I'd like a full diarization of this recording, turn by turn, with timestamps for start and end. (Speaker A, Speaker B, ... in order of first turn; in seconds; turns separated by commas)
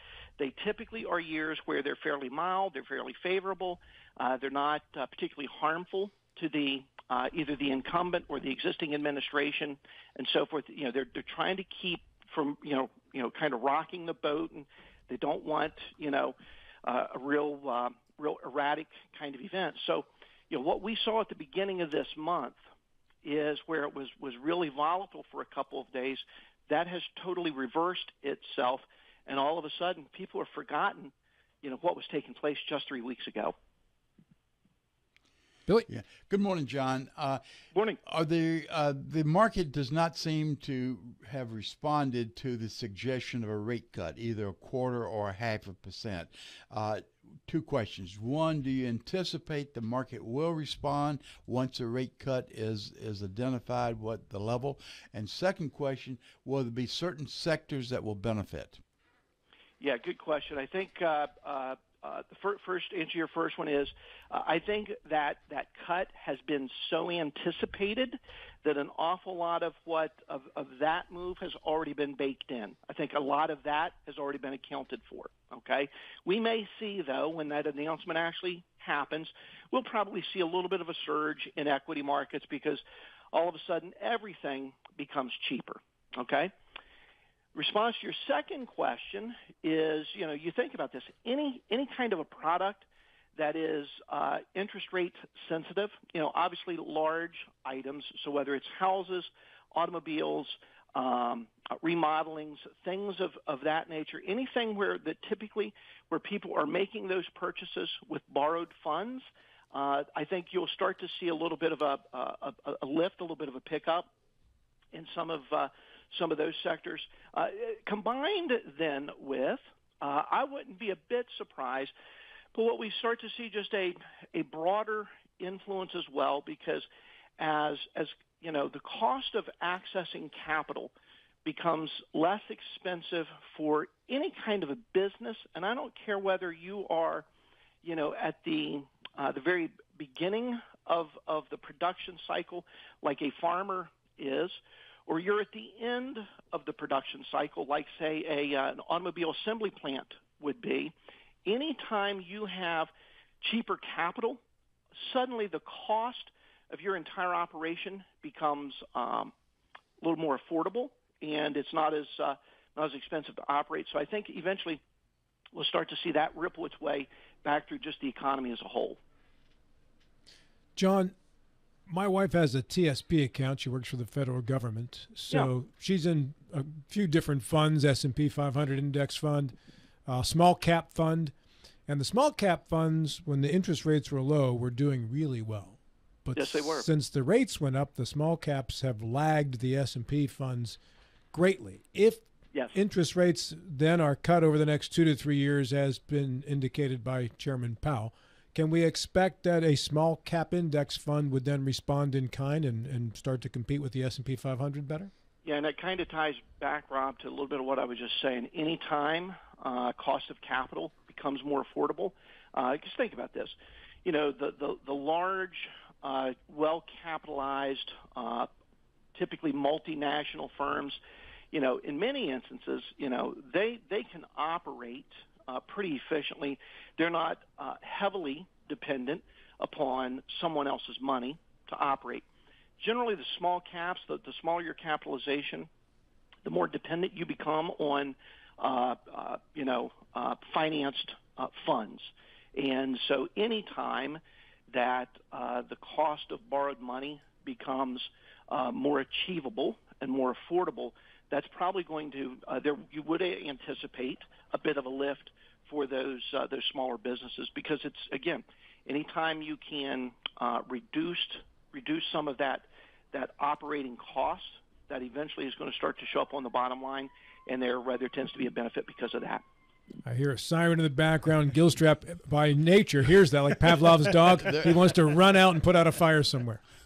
Speaker A: 0.4-22.6, Speaker A: 23.2-33.5, Speaker B: 35.9-37.4, Speaker A: 37.7-38.0, Speaker B: 38.0-58.8, Speaker A: 59.8-82.8, Speaker A: 83.3-86.5, Speaker A: 87.5-114.1, Speaker A: 114.9-121.9, Speaker A: 122.5-126.9, Speaker A: 127.4-130.9, Speaker A: 131.4-137.2, Speaker A: 137.8-150.9, Speaker A: 151.4-154.4, Speaker A: 154.9-159.3, Speaker A: 160.0-164.8, Speaker A: 165.5-169.0, Speaker C: 170.8-171.2, Speaker C: 171.9-179.5, Speaker C: 180.1-181.3, Speaker C: 181.9-190.8, Speaker A: 186.3-186.9, Speaker C: 191.3-205.1, Speaker A: 205.4-218.5, Speaker A: 219.1-221.0, Speaker A: 221.5-232.2, Speaker A: 232.8-235.7, Speaker A: 236.4-269.4, Speaker C: 270.0-276.6, Speaker B: 274.4-275.0